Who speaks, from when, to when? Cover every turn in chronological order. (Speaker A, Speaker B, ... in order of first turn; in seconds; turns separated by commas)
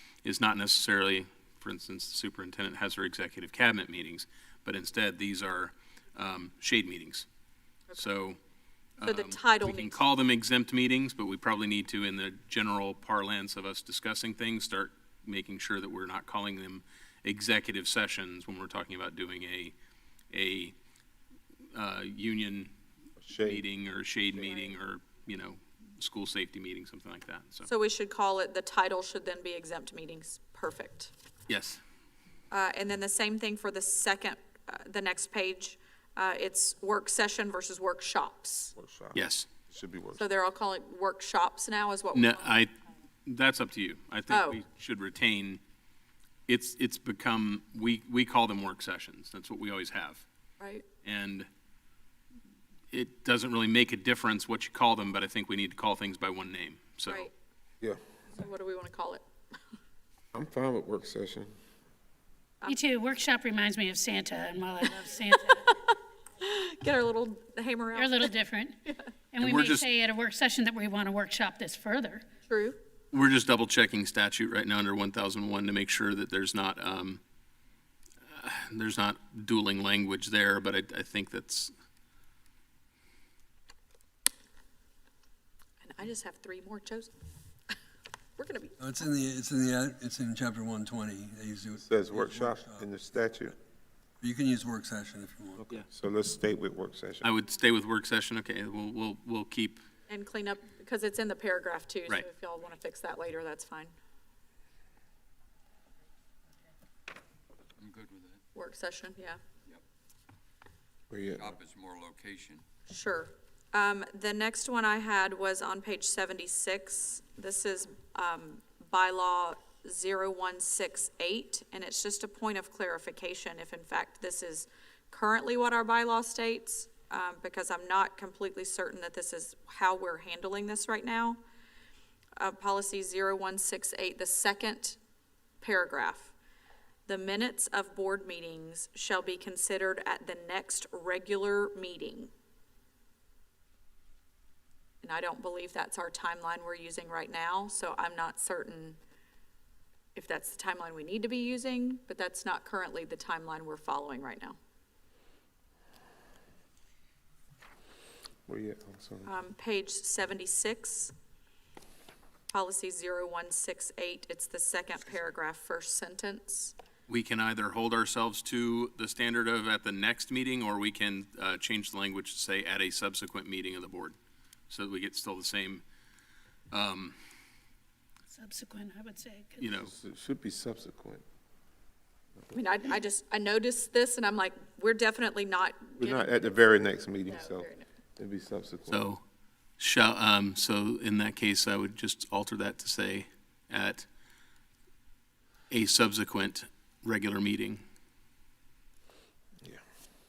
Speaker A: 0.2-7.3, Speaker A: 7.9-8.4, Speaker A: 9.0-19.7, Speaker B: 9.0-10.0, Speaker A: 20.3-20.8, Speaker A: 21.7-22.7, Speaker C: 23.2-23.6, Speaker A: 23.4-27.7, Speaker B: 27.7-31.1, Speaker A: 31.5-31.8, Speaker B: 32.5-38.7, Speaker C: 38.8-40.2, Speaker A: 39.1-39.5, Speaker B: 40.2-42.5, Speaker A: 42.1-42.7, Speaker A: 43.2-45.6, Speaker B: 44.3-44.6, Speaker A: 46.5-50.2, Speaker A: 51.0-51.5, Speaker A: 52.9-57.3, Speaker B: 57.1-57.3, Speaker B: 58.3-59.2, Speaker C: 60.3-61.5, Speaker D: 62.7-65.8, Speaker B: 66.4-68.3, Speaker D: 67.9-72.2, Speaker A: 69.4-69.9, Speaker B: 72.5-72.8, Speaker A: 73.1-77.2, Speaker A: 78.3-81.7, Speaker B: 85.8-87.1, Speaker B: 88.4-88.8, Speaker E: 88.8-92.9, Speaker C: 91.8-93.5, Speaker E: 94.2-95.7, Speaker C: 95.6-97.3, Speaker A: 97.2-99.8, Speaker B: 100.1-103.9, Speaker F: 107.8-108.4, Speaker B: 108.5-109.4, Speaker C: 111.1-111.5, Speaker F: 111.3-112.6, Speaker B: 112.9-131.4, Speaker B: 132.4-135.0, Speaker B: 135.6-136.3, Speaker B: 137.1-142.3, Speaker B: 145.0-149.0, Speaker B: 150.2-154.6, Speaker C: 158.5-159.3, Speaker B: 159.3-161.1, Speaker B: 162.5-166.8, Speaker A: 167.1-174.2, Speaker A: 174.7-175.8, Speaker A: 176.7-177.2, Speaker D: 178.3-179.7, Speaker A: 179.6-179.9, Speaker C: 179.8-181.2, Speaker B: 182.5-186.7, Speaker C: 186.0-189.1, Speaker B: 187.3-187.9, Speaker A: 188.9-189.2, Speaker A: 189.8-194.1, Speaker A: 195.7-197.8